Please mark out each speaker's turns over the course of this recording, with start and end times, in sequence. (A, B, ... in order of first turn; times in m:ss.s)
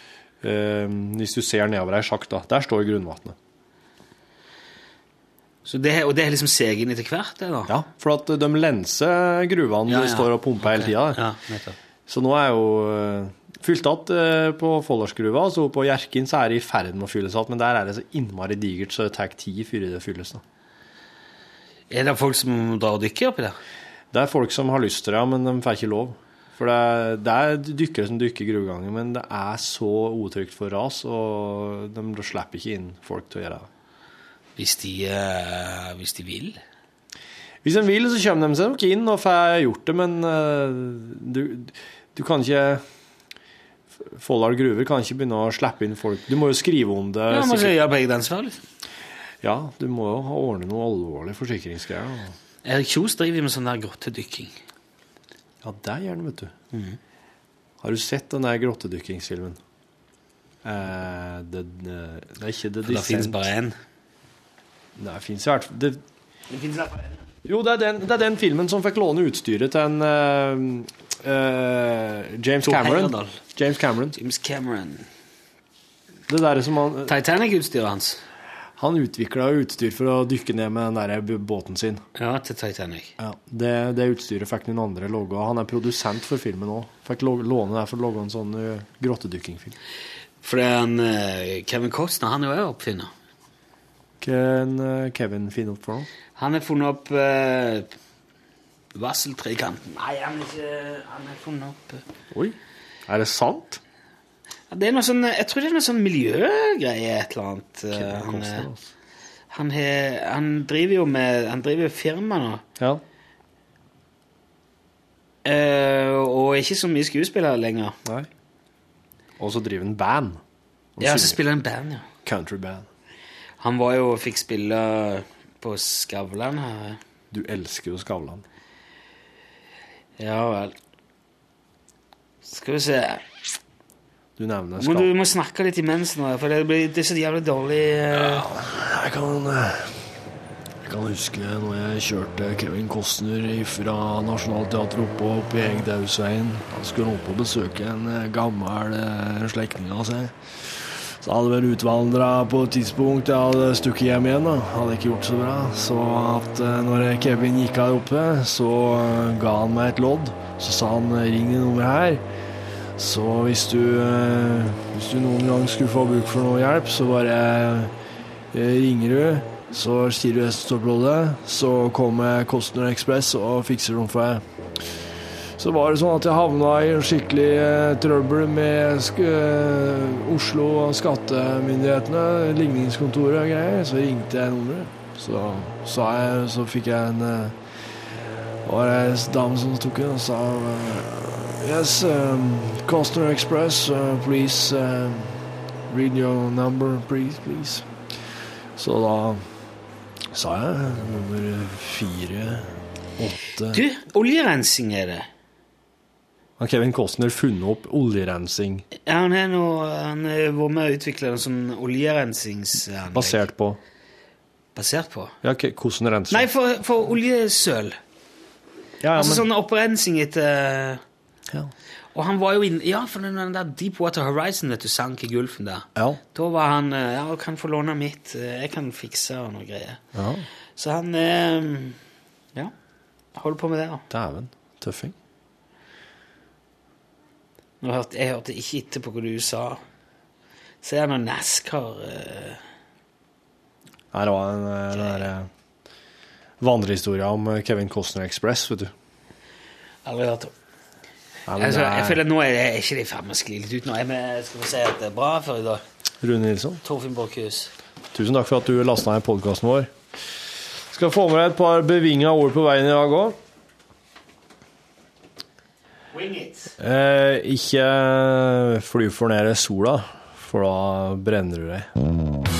0:00.4-0:03.4 A
0:05.6-0:07.7 B
0:07.7-0:11.2 A
0:09.9-0:11.8 B
0:12.1-0:20.4 A
0:21.9-0:23.6 B
0:24.1-0:33.7 A
0:34.6-0:36.6 B
0:37.6-0:42.8 A
0:44.1-0:47.7 A
0:47.3-0:48.6 B
0:49.4-0:52.3 A
0:52.6-0:54.5 B
0:55.6-0:56.5 A
0:57.8-0:59.6 A
1:00.6-1:03.4 A
1:02.8-1:03.7 B
1:05.0-1:06.0 A
1:06.5-1:07.2 B
1:07.4-1:14.1 A
1:12.6-1:13.4 B
1:14.1-1:15.0 B
1:16.3-1:17.1 A
1:17.1-1:18.2 B
1:18.8-1:22.0 A
1:22.2-1:23.1 B
1:23.2-1:29.8 A
1:30.4-1:33.1 B
1:34.2-1:36.1 A
1:36.4-1:37.9 B
1:38.9-1:42.0 B
1:43.1-1:43.8 A
1:44.7-1:48.6 B
1:47.9-1:48.8 A
1:49.5-1:52.6 B
1:55.4-1:58.0 B
1:59.4-2:00.4 A
2:01.0-2:01.4 A
2:01.0-2:02.0 B
2:02.2-2:02.8 A
2:03.6-2:07.0 B
2:07.3-2:08.4 A
2:10.2-2:10.7 B
2:12.4-2:13.2 B
2:14.4-2:15.1 A
2:14.8-2:18.4 B
2:18.1-2:19.9 A
2:20.8-2:42.2 A
2:43.0-2:47.9 A
2:48.5-2:54.4 A
2:55.6-3:07.6 A
3:08.6-3:15.4 A
3:15.9-3:17.8 A
3:18.8-3:19.4 A
3:20.3-3:23.8 A
3:23.7-3:25.3 B
3:26.6-3:28.8 A
3:29.0-3:33.4 B
3:33.1-3:33.8 A
3:34.7-3:35.4 B
3:35.4-3:36.5 A
3:36.3-3:38.0 B
3:39.0-3:39.4 A
3:39.2-3:41.0 B
3:42.1-3:50.0 B
3:50.1-3:50.4 A
3:50.8-3:52.0 B
3:53.3-3:54.0 B
3:54.1-3:55.1 A
3:57.8-3:59.8 B
4:00.8-4:02.6 B
4:04.1-4:05.5 A
4:04.9-4:05.3 B
4:06.6-4:08.9 A
4:10.0-4:10.5 B
4:11.5-4:12.2 A
4:11.6-4:15.8 B
4:16.2-4:16.8 A
4:16.8-4:17.7 B
4:18.1-4:19.9 A
4:20.9-4:23.4 A
4:26.1-4:26.7 B
4:26.8-4:31.9 A